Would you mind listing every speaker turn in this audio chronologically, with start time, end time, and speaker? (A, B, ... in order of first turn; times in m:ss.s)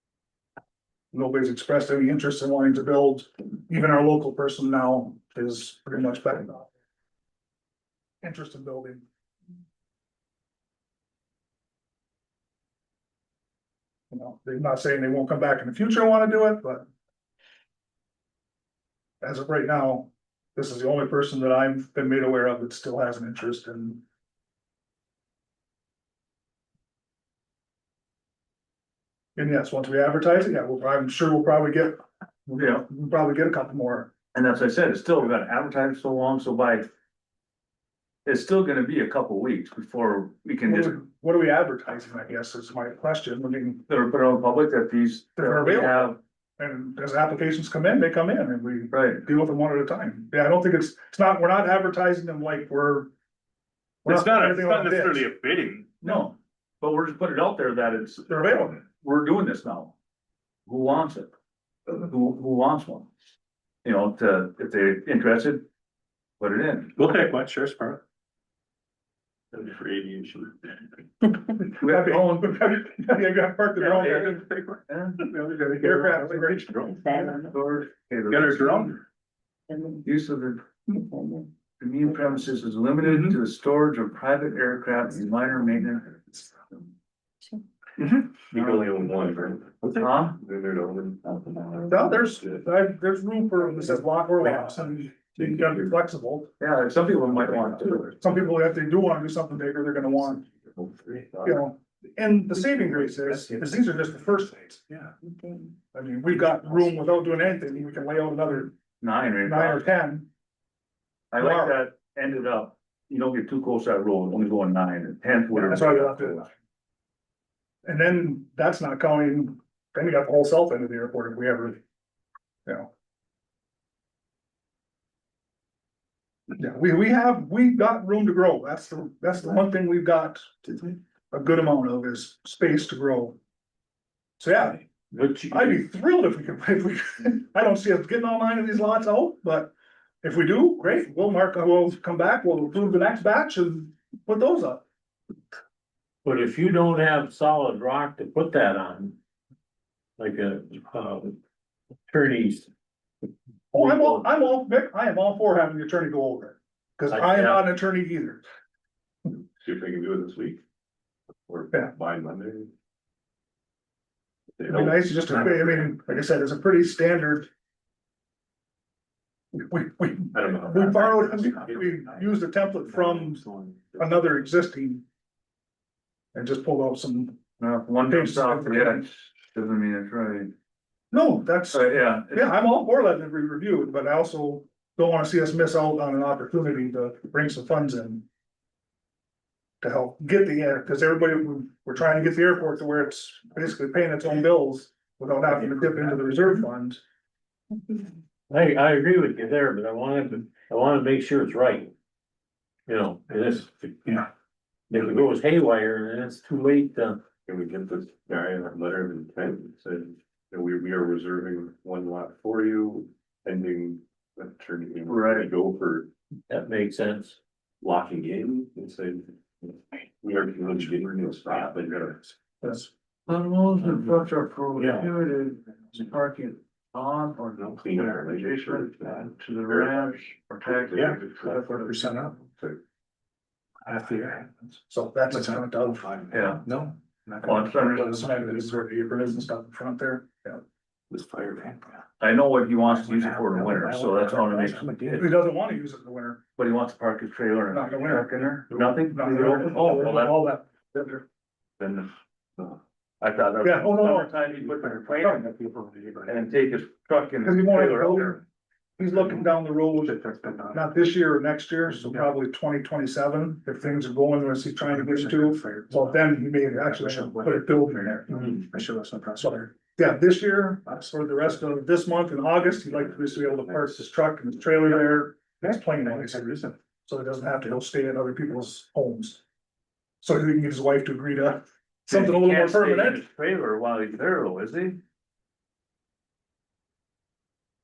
0:01.1-0:06.7 A
0:08.2-0:09.0 A
0:14.1-0:16.9 A
0:19.2-0:24.0 A
0:29.4-0:34.1 A
0:32.5-0:32.8 B
0:34.3-0:36.9 B
0:38.2-0:41.0 B
0:40.6-0:43.8 A
0:43.9-0:46.2 B
0:45.4-0:53.1 A
0:48.9-0:49.2 B
0:54.0-0:55.3 A
0:54.0-0:55.9 C
0:56.0-0:59.9 B
0:56.0-0:56.3 A
0:58.3-0:58.8 A
1:00.6-1:01.3 B
1:01.9-1:03.1 B
1:03.8-1:05.6 B
1:06.4-1:06.9 B
1:07.0-1:08.0 C
1:09.5-1:10.7 D
1:11.2-1:14.4 A
1:11.8-1:12.4 B
1:13.8-1:14.8 D
1:14.0-1:14.3 B
1:14.9-1:15.2 B
1:15.4-1:17.0 C
1:15.4-1:17.4 A
1:17.3-1:18.9 B
1:18.3-1:19.0 C
1:20.0-1:21.2 B
1:21.8-1:26.4 B
1:28.5-1:32.6 D
1:28.5-1:29.0 B
1:30.0-1:30.4 B
1:31.9-1:36.5 A
1:34.4-1:35.0 C
1:35.4-1:35.9 D
1:36.6-1:38.2 B
1:38.2-1:40.5 A
1:40.8-1:41.4 D
1:41.4-1:44.8 A
1:42.8-1:43.8 C
1:45.9-1:48.8 A
1:49.0-1:49.9 B
1:49.4-1:50.3 A
1:51.3-1:56.4 B
1:51.4-1:51.8 A
1:55.5-1:56.5 A
1:57.8-2:01.8 A
2:06.5-2:13.4 A
2:14.4-2:14.9 A
2:15.1-2:15.8 E
2:15.5-2:24.8 A
2:26.2-2:29.2 E
2:30.2-2:31.4 E
2:32.1-2:32.7 E
2:33.7-2:38.4 A
2:33.8-2:34.2 E
2:37.1-2:37.6 E
2:39.6-2:40.6 D
2:41.5-2:42.7 D
2:44.6-2:45.6 D
2:44.7-2:47.5 A
2:49.5-2:53.4 A
2:50.3-2:52.1 D
2:53.4-2:54.0 D
2:54.0-2:55.0 A
2:56.3-2:57.4 A
2:57.6-3:00.5 B
2:58.1-2:59.1 A
3:01.1-3:08.2 A
3:01.7-3:02.5 B
3:09.8-3:17.0 A
3:18.5-3:21.9 E
3:22.9-3:24.3 E
3:24.9-3:27.2 E
3:27.4-3:36.1 D
3:35.1-3:35.5 B
3:36.5-3:37.4 E
3:37.8-3:42.3 D
3:43.3-3:52.3 B
3:44.8-3:45.1 E
3:47.6-3:51.7 D
3:51.0-3:52.5 C
3:53.8-3:54.7 C
3:54.9-3:56.1 A
3:55.3-3:58.8 C
3:56.3-3:56.7 B
3:57.4-3:58.2 B
3:57.6-4:00.6 A
4:01.1-4:02.0 C
4:02.2-4:05.2 B
4:02.8-4:05.3 C
4:05.1-4:06.4 A
4:06.6-4:11.2 B
4:07.7-4:10.7 A
4:11.8-4:12.1 B
4:13.2-4:15.5 B
4:13.6-4:14.3 A
4:14.7-4:16.4 C
4:15.2-4:15.5 A
4:16.2-4:18.4 B
4:17.4-4:18.4 A
4:19.0-4:20.2 A
4:20.0-4:21.0 C
4:20.7-4:28.6 A
4:24.8-4:29.7 C
4:29.4-4:36.5 A
4:30.9-4:31.1 C
4:34.9-4:36.8 C
4:37.0-4:39.4 A
4:40.2-4:43.2 A
4:42.1-4:45.0 B